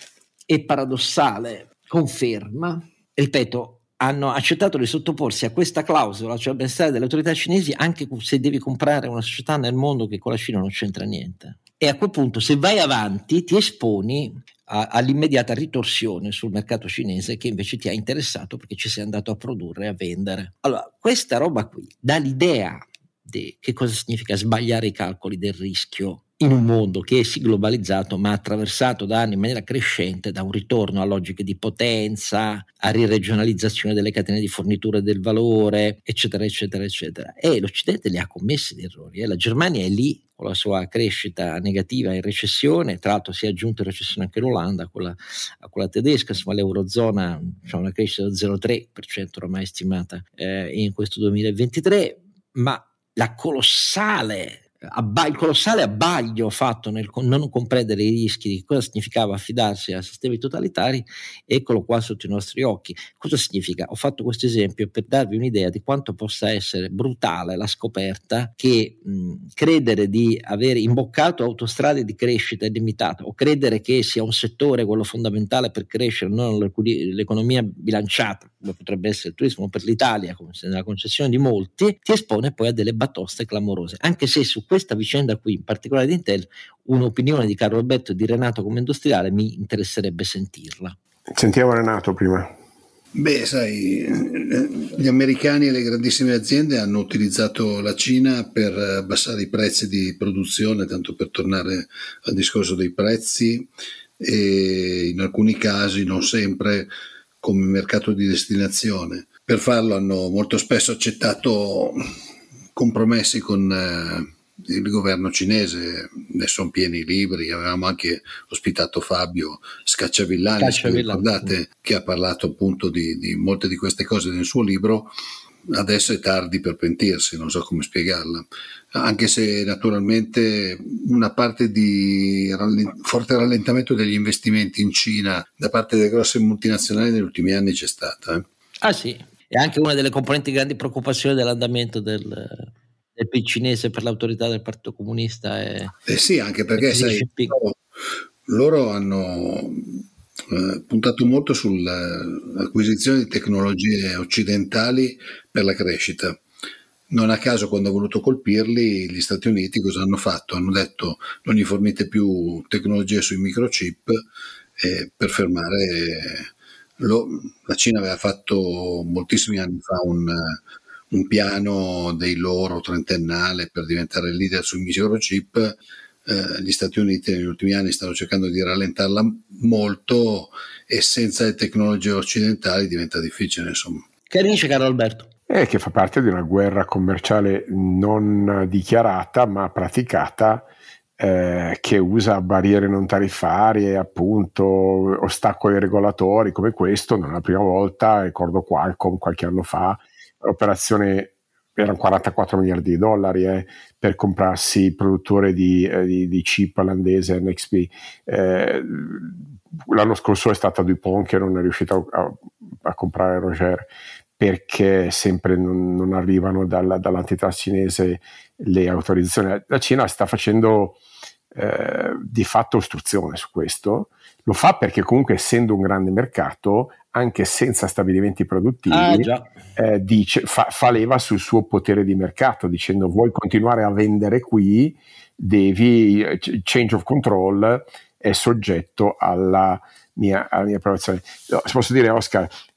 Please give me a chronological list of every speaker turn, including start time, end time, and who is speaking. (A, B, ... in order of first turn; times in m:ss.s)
0:00.5-1:31.0 A
1:31.3-1:32.5 B
1:33.1-1:43.7 C
1:44.2-1:46.9 C
1:47.4-1:52.0 C
1:52.7-2:05.1 C
2:00.6-2:01.5 A
2:05.6-2:18.4 C
2:18.8-2:26.0 A
2:26.0-2:27.7 C
2:26.8-2:27.6 A
2:28.5-2:36.4 C
2:37.1-2:44.2 C
2:44.8-2:50.6 C
2:51.1-3:04.1 C
3:04.3-3:05.3 A
3:05.5-3:41.0 B
3:41.5-4:02.5 B
3:48.9-3:49.5 A